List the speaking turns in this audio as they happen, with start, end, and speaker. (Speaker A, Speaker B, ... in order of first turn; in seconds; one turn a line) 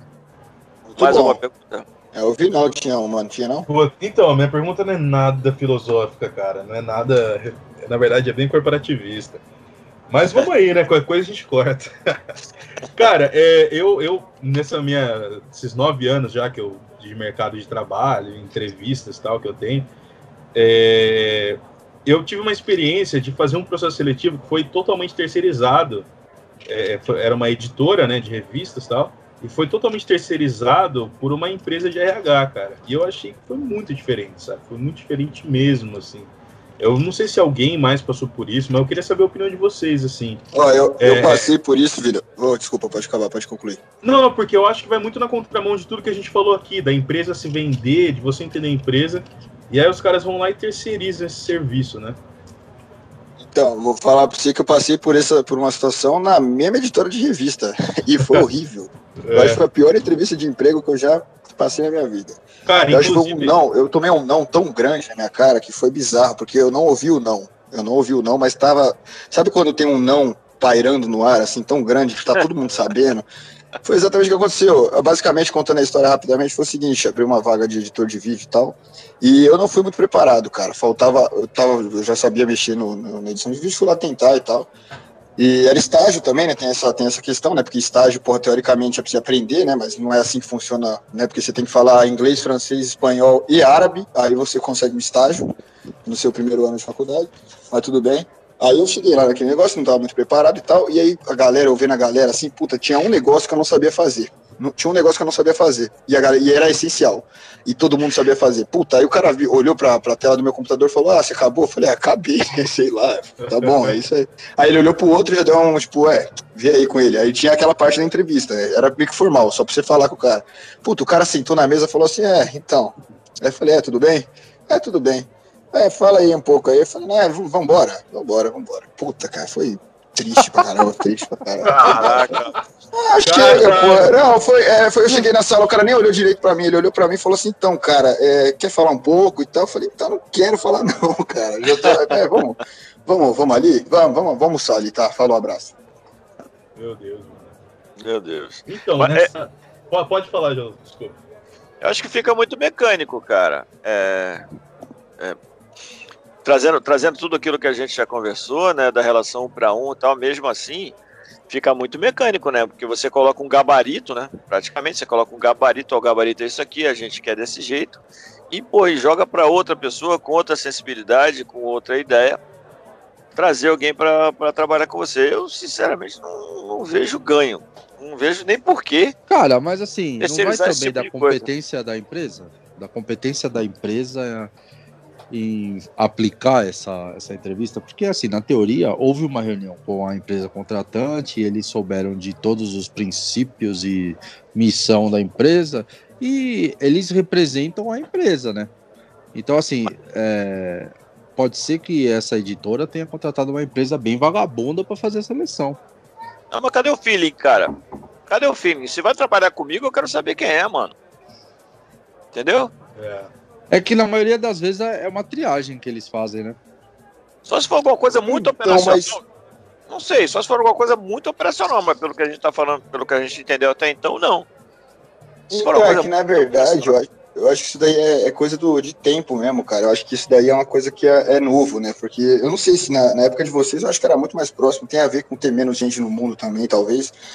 Speaker A: 0.9-1.4
Speaker B: 1.0-1.9
Speaker A: 2.1-3.6
Speaker C: 3.7-9.4
Speaker C: 10.1-12.2
Speaker C: 12.9-19.9
Speaker C: 20.5-26.1
Speaker C: 26.7-40.4
Speaker A: 40.5-43.8
Speaker C: 41.0-41.5
Speaker C: 44.0-52.2
Speaker A: 53.4-73.3
Speaker C: 59.3-59.6
Speaker C: 62.7-63.6
Speaker A: 73.8-84.7
Speaker A: 85.4-95.5
Speaker A: 96.1-132.3
Speaker C: 113.4-114.0
Speaker C: 131.6-132.6
Speaker B: 131.8-132.5
Speaker A: 132.9-145.8
Speaker C: 133.2-134.1
Speaker C: 146.8-147.6
Speaker B: 148.0-149.3
Speaker C: 148.7-151.2
Speaker B: 151.8-154.4
Speaker B: 156.4-160.9
Speaker B: 161.5-168.0
Speaker B: 168.5-172.4
Speaker B: 173.4-179.2
Speaker D: 179.3-184.5
Speaker B: 180.2-181.5
Speaker D: 185.3-198.7
Speaker D: 199.3-205.8
Speaker B: 206.5-207.7
Speaker B: 208.3-210.9
Speaker B: 212.3-212.7
Speaker C: 213.0-213.3
Speaker D: 213.7-216.6
Speaker B: 217.4-219.2
Speaker A: 218.3-219.2
Speaker B: 219.9-224.5
Speaker A: 225.5-237.1
Speaker B: 225.6-226.9